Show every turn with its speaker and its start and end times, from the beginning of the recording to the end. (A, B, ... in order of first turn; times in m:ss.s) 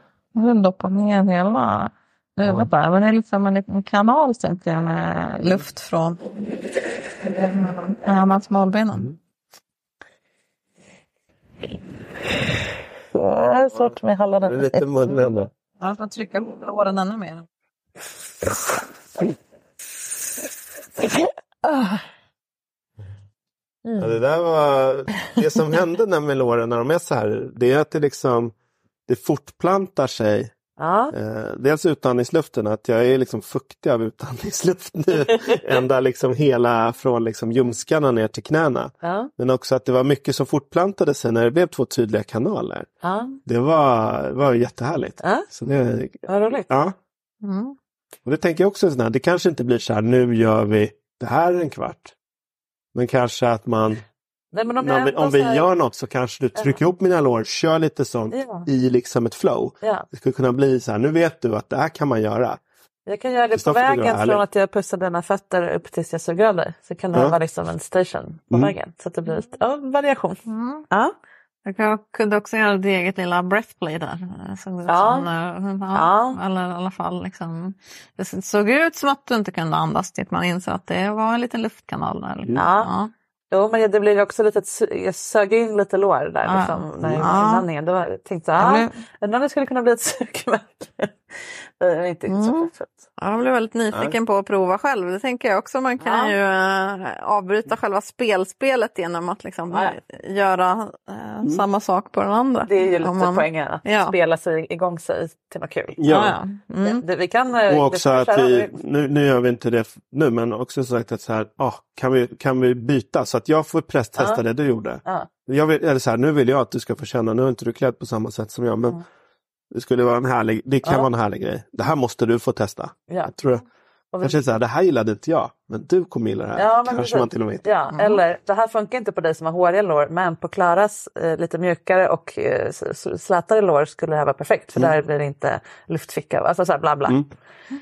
0:00.4-0:09.1 A
0:13.1-0:14.9 B
0:14.4-0:15.5 C
0:15.8-0:17.5 A
0:23.9-0:24.2 B
0:24.0-0:28.5 C
0:29.1-0:30.5 C
0:30.8-0:31.1 B
0:31.1-0:42.9 C
0:39.0-0:39.3 B
0:43.0-0:43.4 B
0:43.4-0:47.0 C
0:45.2-0:45.5 B
0:46.3-0:46.7 B
0:47.4-0:47.8 A
0:48.2-0:52.1 C
0:52.9-0:54.0 C
0:54.5-0:55.7 B
0:54.8-1:02.6 C
0:56.6-0:56.8 B
0:58.3-0:58.7 B
0:59.8-1:00.1 B
1:03.1-1:11.1 B
1:03.5-1:04.4 C
1:07.1-1:07.4 C
1:10.5-1:10.9 A
1:11.7-1:23.1 A
1:14.9-1:15.3 B
1:15.9-1:16.4 B
1:22.6-1:22.9 B
1:23.5-1:32.9 B
1:26.4-1:27.7 A
1:27.0-1:27.4 C
1:28.6-1:28.9 A
1:32.3-1:44.1 A
1:36.0-1:36.4 B
1:42.7-1:46.0 B
1:46.0-1:46.4 C
1:46.1-1:47.0 A
1:46.8-1:48.8 B
1:47.7-1:59.0 C
1:54.2-1:54.4 B
1:59.7-2:03.6 C
2:04.1-2:04.4 B
2:04.2-2:07.7 C
2:06.6-2:17.2 B
2:07.9-2:08.2 A